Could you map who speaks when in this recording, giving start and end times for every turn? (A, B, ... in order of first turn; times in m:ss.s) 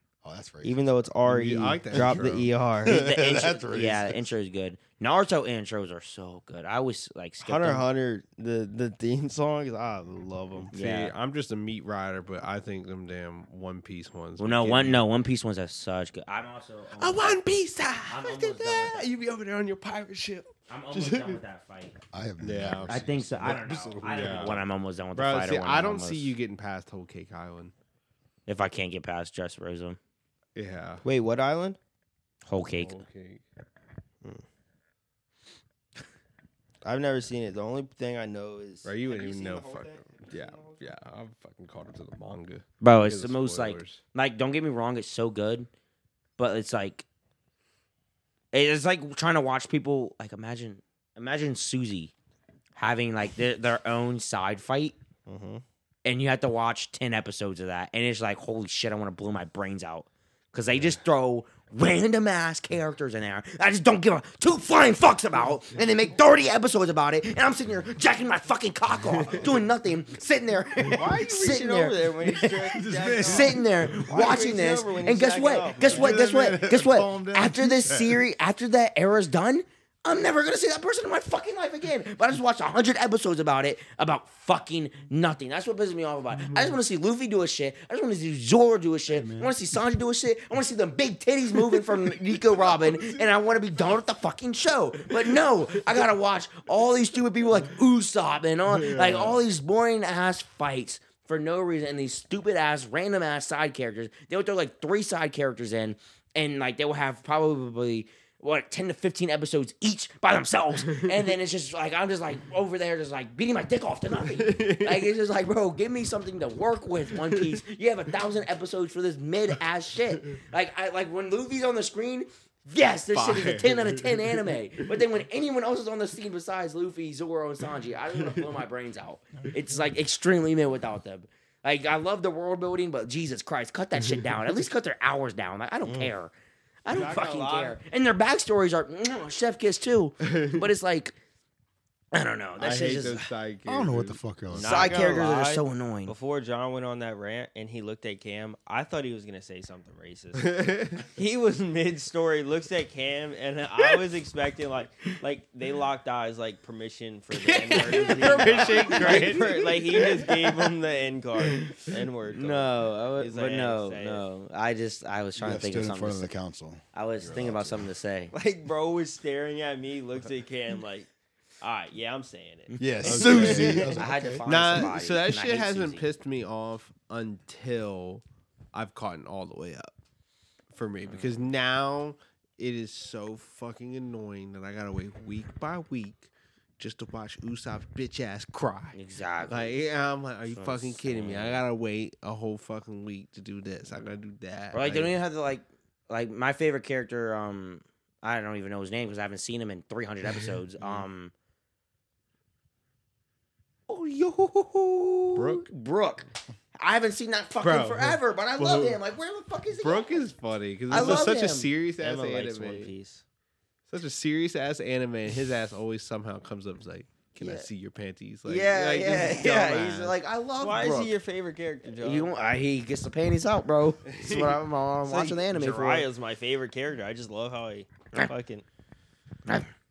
0:00.2-0:01.1 A
0:00.6-0:03.0 B
0:01.2-0:02.5 C
0:01.9-0:04.3 A
0:02.8-0:07.8 D
0:07.4-0:10.7 B
0:10.7-0:15.0 C
0:10.7-0:11.1 D
0:14.4-0:17.4 D
0:17.0-0:21.4 C
0:18.1-0:19.1 D
0:20.7-0:22.0 D
0:22.1-0:24.6 A
0:22.4-0:27.7 C
0:22.9-0:26.3 D
0:28.5-0:30.0 D
0:30.6-0:31.0 C
0:31.0-0:31.8 B
0:32.4-0:33.0 D
0:32.7-0:33.4 C
0:36.8-0:41.0 B
0:38.8-0:44.0 C
0:42.8-0:45.7 D
0:46.4-0:47.0 D
0:48.5-0:52.1 D
0:52.8-0:55.0 D
0:55.3-0:55.6 B
0:56.0-2:16.3 D
1:09.0-1:09.6 C
1:10.8-1:16.2 B
1:12.7-1:14.0 A
1:15.9-1:18.3 A
1:29.1-1:29.6 A
1:32.4-1:33.3 A
1:38.7-1:39.4 C
1:54.1-1:55.2 C
1:57.1-1:57.6 C
2:03.1-2:05.0 C
2:08.1-2:08.6 C
2:14.0-2:14.4 C
2:15.9-2:16.1 B
2:16.8-2:21.2 D
2:16.9-2:17.8 B
2:20.3-2:20.6 C
2:22.1-2:23.3 D
2:22.6-2:24.2 C
2:23.6-2:25.0 A
2:24.5-2:44.2 B
2:24.6-2:26.1 D
2:30.4-2:31.0 C
2:37.4-2:40.7 C
2:37.6-2:39.4 D
2:42.3-2:46.3 D
2:45.4-2:47.9 A
2:46.9-2:48.3 D
2:48.3-2:51.1 B
2:51.6-2:54.1 B
2:52.7-2:56.0 D
2:52.8-2:54.5 A
2:53.0-2:53.8 C
2:54.4-2:59.9 C
3:00.7-3:15.2 C
3:01.0-3:01.4 D
3:08.9-3:09.8 D
3:10.5-3:11.6 D
3:14.7-3:21.3 D
3:20.8-3:21.0 C
3:23.9-3:30.2 D
3:25.3-3:25.7 C
3:27.6-3:29.0 C
3:29.7-3:32.9 C
3:30.9-3:31.7 D
3:32.0-3:33.2 B
3:33.9-3:40.2 C
3:37.4-3:37.7 D
3:38.4-3:41.2 D
3:40.6-3:42.3 B
3:41.9-3:46.1 D
3:44.1-3:44.6 C
3:45.0-3:48.6 B